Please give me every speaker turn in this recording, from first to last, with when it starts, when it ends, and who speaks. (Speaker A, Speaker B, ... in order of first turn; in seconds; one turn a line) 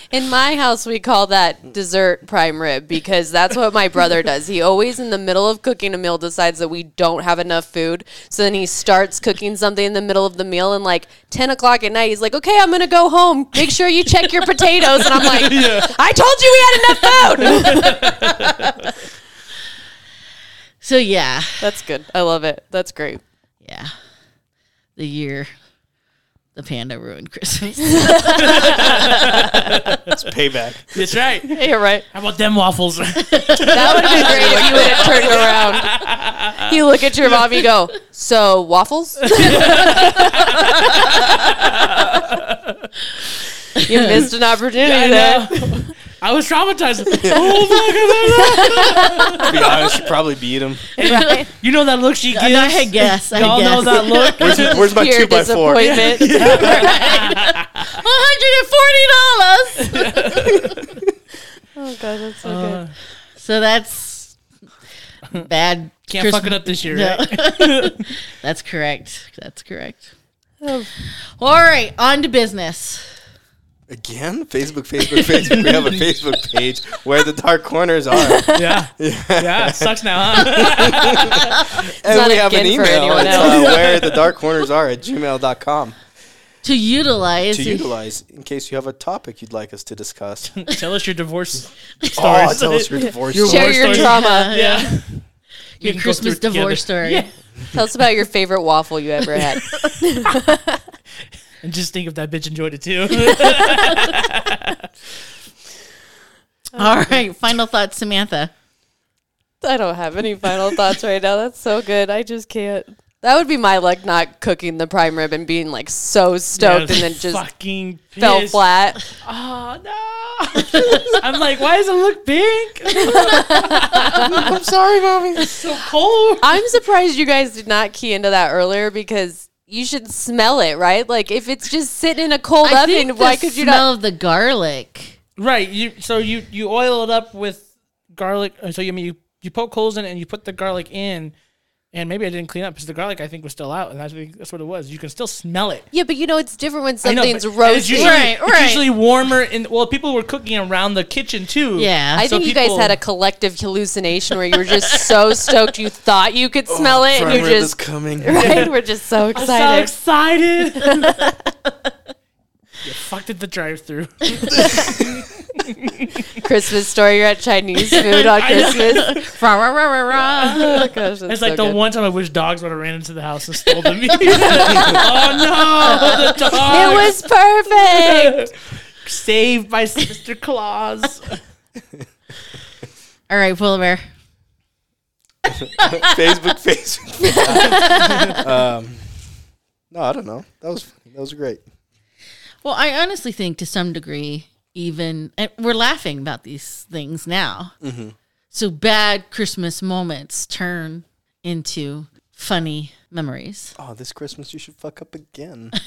Speaker A: 0.1-18.5
Speaker B: 15.1-15.9
Speaker B: 17.1-18.7
Speaker C: 20.8-21.6
Speaker A: 21.6-23.2
Speaker C: 23.6-23.9
Speaker C: 25.0-25.5
Speaker C: 26.6-29.3
Speaker A: 28.0-28.9
Speaker B: 28.4-30.1
Speaker D: 30.1-30.9
Speaker B: 30.9-31.6
Speaker A: 31.5-32.1
Speaker B: 32.1-36.8
Speaker C: 33.3-33.8
Speaker A: 33.7-35.9
Speaker A: 36.6-41.1
Speaker B: 39.2-42.9
Speaker C: 43.8-44.2
Speaker A: 43.8-45.9
Speaker B: 44.8-49.9
Speaker D: 47.2-47.7
Speaker A: 48.4-49.5
Speaker D: 49.4-50.9
Speaker B: 51.0-54.9
Speaker A: 51.0-51.5
Speaker C: 51.0-51.4
Speaker C: 52.3-54.7
Speaker D: 54.4-56.1
Speaker A: 54.5-57.3
Speaker B: 55.8-58.0
Speaker C: 56.4-60.6
Speaker B: 59.8-60.9
Speaker A: 61.8-62.8
Speaker B: 62.5-62.9
Speaker C: 63.4-64.4
Speaker C: 65.3-70.1
Speaker B: 66.1-68.0
Speaker A: 70.6-70.9
Speaker C: 71.4-73.0
Speaker D: 73.9-86.0
Speaker B: 75.5-75.9
Speaker A: 78.3-78.6
Speaker B: 78.5-81.7
Speaker A: 82.0-84.3
Speaker B: 83.3-83.9
Speaker C: 86.6-88.0
Speaker D: 87.5-90.5
Speaker B: 90.5-95.2
Speaker D: 92.2-94.1
Speaker A: 93.4-95.0
Speaker C: 93.9-94.9
Speaker C: 95.8-97.3
Speaker B: 95.8-97.3
Speaker A: 97.7-100.8
Speaker B: 101.6-104.8
Speaker A: 103.3-103.8
Speaker C: 106.8-108.5
Speaker A: 106.8-107.0
Speaker A: 109.6-117.4
Speaker B: 116.5-118.6
Speaker A: 118.2-119.0
Speaker B: 119.2-124.5
Speaker A: 123.0-124.5
Speaker D: 124.0-125.5
Speaker B: 125.4-126.6
Speaker A: 126.4-133.9
Speaker C: 132.6-135.2
Speaker B: 135.4-141.3
Speaker B: 141.9-145.9
Speaker A: 145.9-148.3
Speaker B: 147.0-153.0
Speaker C: 147.9-148.9
Speaker C: 151.8-152.2
Speaker A: 152.2-159.9
Speaker D: 156.7-158.6
Speaker B: 158.3-158.7
Speaker B: 159.3-161.3
Speaker A: 160.8-161.3
Speaker B: 162.8-166.2
Speaker D: 164.6-165.2
Speaker A: 166.4-169.2
Speaker B: 168.0-169.3
Speaker C: 168.7-170.9
Speaker B: 170.2-177.2
Speaker A: 170.5-171.8
Speaker A: 174.6-175.2
Speaker A: 175.8-178.5
Speaker B: 177.9-181.4
Speaker C: 183.3-184.0
Speaker D: 185.5-189.0
Speaker C: 185.8-186.1
Speaker C: 187.5-188.4
Speaker D: 189.9-191.6
Speaker C: 192.6-197.7
Speaker D: 197.8-198.2
Speaker C: 198.5-203.8
Speaker D: 203.8-205.8